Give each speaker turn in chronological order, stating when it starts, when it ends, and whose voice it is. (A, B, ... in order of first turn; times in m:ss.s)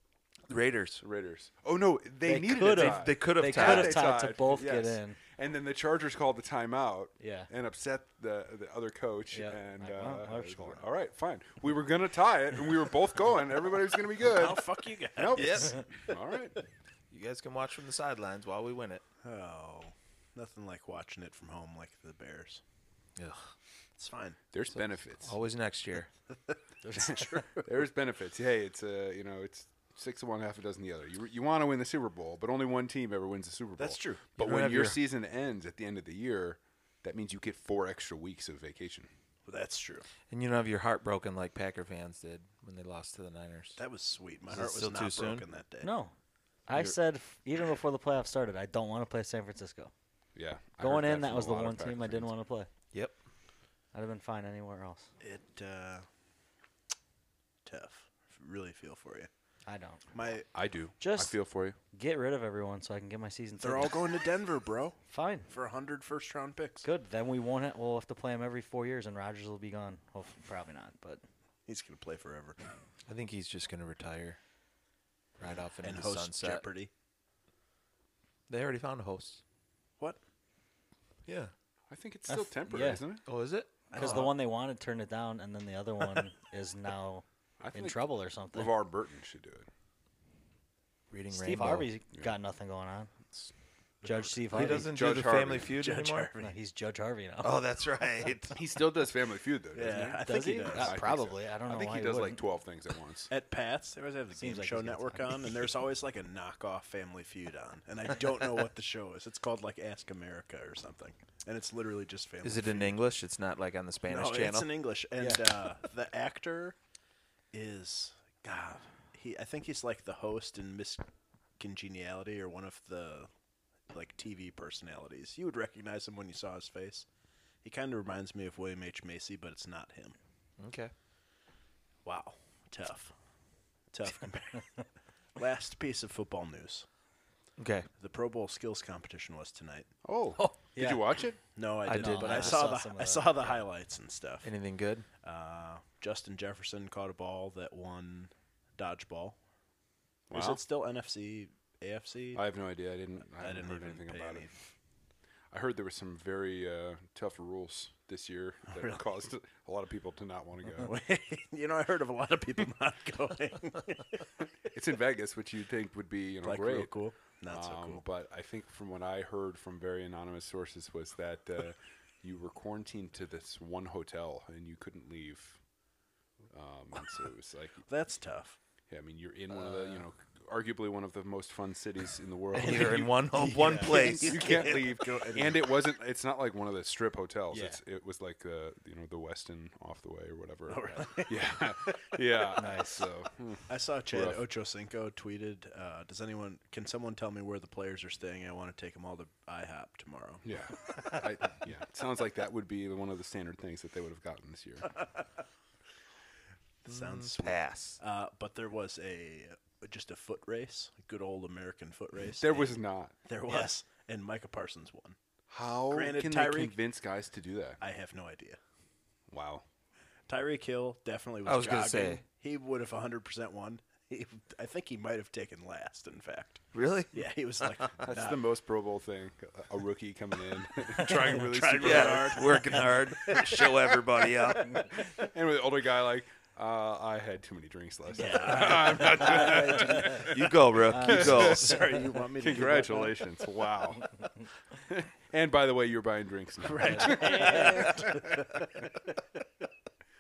0:00.5-0:01.0 A
0:01.0-0:14.6 B
0:02.2-0:05.2 C
0:02.7-0:04.0 A
0:07.2-0:07.5 C
0:09.3-0:10.8 C
0:14.2-0:16.2 D
0:15.2-0:16.6 B
0:15.3-0:15.8 A
0:17.1-0:19.0 A
0:19.2-0:22.6 D
0:23.2-0:23.5 A
0:24.0-0:24.4 D
0:24.5-0:25.3 B
0:25.2-0:26.1 A
0:26.3-0:27.7 D
0:26.8-0:27.4 C
0:27.0-0:39.1 B
0:33.8-0:34.2 D
0:34.4-0:35.0 A
0:39.5-0:40.1 D
0:40.3-0:43.8 A
0:43.8-0:45.9 D
0:44.5-0:45.4 A
0:45.8-0:46.1 C
0:46.7-0:49.9 C
0:50.4-0:52.3 B
0:50.8-0:52.7 C
0:53.9-0:55.1 C
0:55.2-0:56.1 D
0:57.6-0:59.3 D
0:59.7-1:00.2 C
1:00.1-1:00.5 D
1:00.5-1:01.8 B
1:01.0-1:01.4 C
1:01.9-1:04.0 C
1:03.6-1:05.0 D
1:05.1-1:05.5 C
1:05.5-1:06.9 D
1:06.8-1:11.2 C
1:11.7-1:12.6 D
1:13.1-1:14.4 A
1:15.4-1:16.7 A
1:15.8-1:16.9 D
1:18.5-1:19.4 A
1:21.3-1:21.5 A
1:21.9-1:23.2 B
1:22.3-1:23.0 C
1:23.3-1:24.3 A
1:23.9-1:24.3 D
1:23.9-1:28.7 C
1:27.6-1:28.0 B
1:28.5-1:29.7 B
1:31.1-1:31.9 A
1:31.3-1:33.1 C
1:34.0-1:34.9 C
1:34.0-1:34.9 D
1:34.5-1:36.3 A
1:34.8-1:35.7 B
1:35.7-1:36.6 D
1:36.4-1:37.5 C
1:37.4-1:38.6 A
1:38.6-1:43.3 B
1:39.8-1:41.0 D
1:40.2-1:42.4 C
1:43.3-1:53.0 D
1:44.3-1:45.5 C
1:52.4-1:54.7 A
1:54.1-1:56.8 D
1:55.2-1:55.4 C
1:57.5-2:01.1 D
2:01.6-2:03.3 D
2:03.9-2:07.1 D
2:07.6-2:10.2 D
2:10.6-2:10.9 A
2:12.0-2:13.1 D
2:13.9-2:14.8 D
2:15.4-2:16.9 D
2:17.6-2:17.9 A
2:18.0-2:19.9 D
2:20.0-2:21.4 B
2:20.4-2:21.1 C
2:21.6-2:24.5 D
2:21.8-2:22.7 A
2:22.0-2:23.5 C
2:24.4-2:25.1 A
2:25.2-2:29.4 D
2:30.3-2:30.6 B
2:30.3-2:32.4 D
2:32.3-2:34.5 B
2:33.4-2:34.5 D
2:35.5-2:40.9 B
2:38.7-2:39.0 D
2:40.7-2:44.3 D
2:44.6-2:46.9 B
2:46.4-2:48.0 D
2:47.5-2:55.6 B
2:56.5-2:57.8 B
2:57.9-2:58.6 D
2:58.9-3:03.1 B
2:59.5-3:00.0 D
3:02.5-3:04.7 A
3:02.6-3:05.8 D
3:03.6-3:03.9 C
3:03.8-3:14.4 B
3:07.5-3:07.8 C
3:10.7-3:12.6 D
3:12.6-3:13.0 C
3:13.7-3:20.4 D
3:20.4-3:25.0 B
3:26.8-3:32.7 D
3:26.9-3:28.0 A
3:32.4-3:33.2 B
3:33.3-3:35.2 D
3:35.5-3:37.8 B
3:35.9-3:36.8 D
3:37.8-3:38.6 D
3:39.3-3:39.6 B
3:40.3-3:48.4 D
3:41.4-3:42.2 A
3:46.7-3:47.3 A
3:48.0-3:52.6 B
3:51.0-3:55.3 D
3:51.8-3:55.1 A
3:55.3-4:04.1 B
3:58.1-4:00.3 D
4:00.0-4:01.9 A
4:00.9-4:01.2 C
4:01.2-4:03.1 D
4:04.8-4:08.6 B
4:06.6-4:09.0 D
4:06.8-4:07.9 C